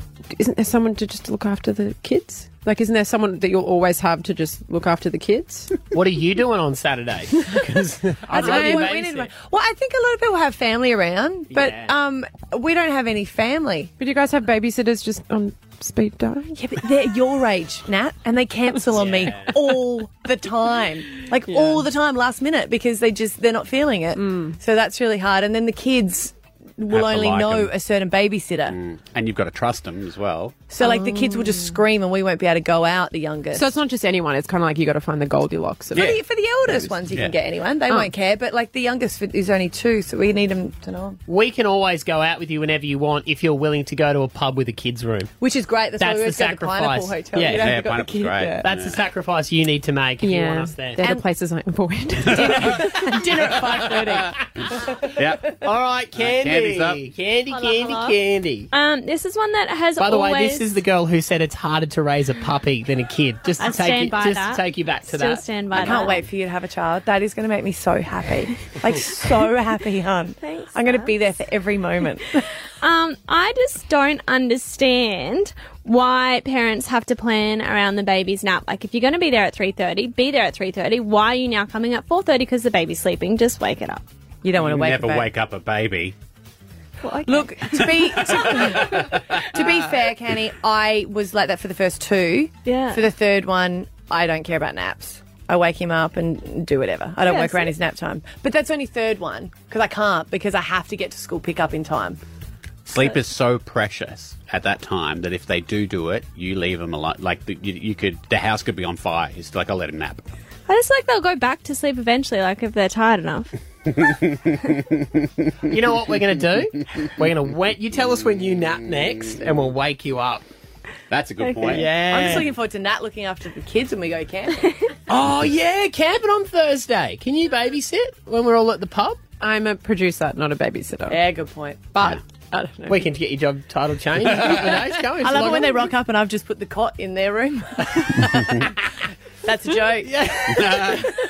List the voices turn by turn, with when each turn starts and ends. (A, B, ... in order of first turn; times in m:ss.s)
0:00.3-0:05.7 A
0:05.9-0:09.3 B
0:08.3-0:13.9 C
0:08.4-0:08.9 A
0:11.5-0:11.9 B
0:14.0-0:16.6 A
0:16.5-0:28.8 C
0:18.9-0:19.5 B
0:21.5-0:21.8 A
0:24.1-0:24.6 A
0:26.9-0:27.7 D
0:28.7-0:30.7 D
0:30.7-0:33.7 C
0:30.8-0:31.8 A
0:33.5-0:36.1 A
0:35.9-0:37.4 D
0:35.9-0:41.2 C
0:41.3-0:45.3 B
0:45.4-0:48.6 C
0:46.0-0:47.8 B
0:47.4-0:49.0 D
0:48.6-0:51.0 B
0:50.2-0:52.7 A
0:52.3-0:54.3 C
0:52.3-0:52.8 D
0:55.1-0:55.6 D
0:55.6-0:58.7 B
0:56.2-0:57.0 D
0:57.5-0:58.1 E
0:58.7-1:00.6 E
1:00.0-1:06.0 B
1:03.6-1:06.2 E
1:05.8-1:12.4 C
1:10.4-1:11.1 E
1:12.8-1:24.0 E
1:24.4-1:25.3 C
1:24.6-1:26.1 D
1:27.0-1:27.6 E
1:27.2-1:42.2 C
1:27.8-1:29.4 D
1:32.6-1:33.0 E
1:37.2-1:37.7 E
1:42.8-1:50.2 D
1:50.7-1:53.5 E
1:53.9-1:55.5 D
1:55.7-2:00.4 B
2:01.1-2:01.9 D
2:01.4-2:01.7 E
2:01.6-2:02.5 B
2:01.7-2:04.8 C
2:05.1-2:09.2 B
2:09.4-2:11.2 A
2:11.1-2:11.8 C
2:11.9-2:13.0 A
2:12.9-2:15.9 B
2:15.2-2:18.7 C
2:19.4-2:20.9 C
2:20.5-2:21.1 D